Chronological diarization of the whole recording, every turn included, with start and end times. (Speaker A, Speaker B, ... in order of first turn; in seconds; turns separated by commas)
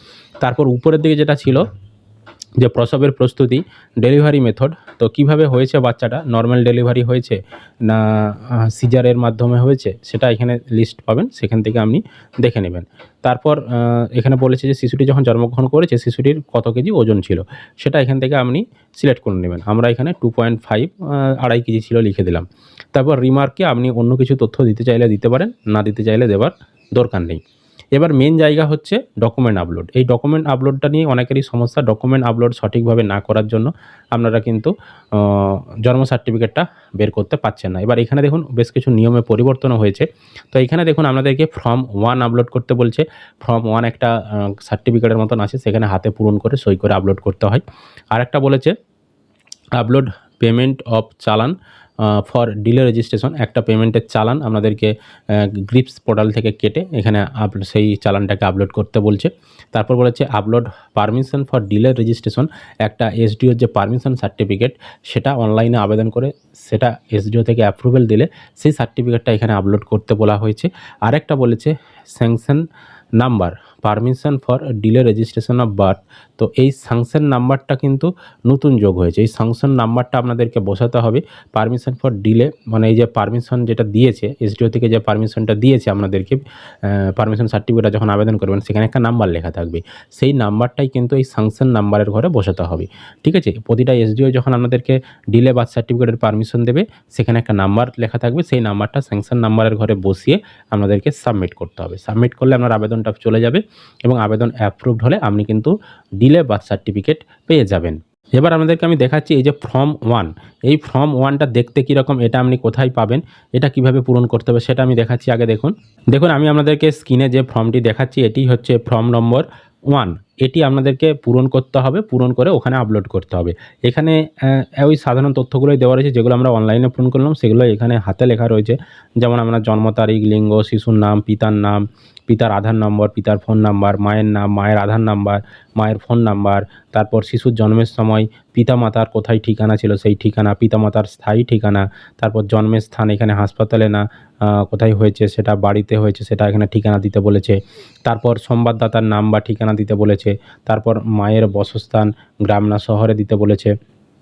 Speaker A: 0.4-1.7, Speaker A: 2.6-27.4, Speaker A: 28.0-48.7, Speaker A: 49.8-72.6, Speaker A: 73.2-153.7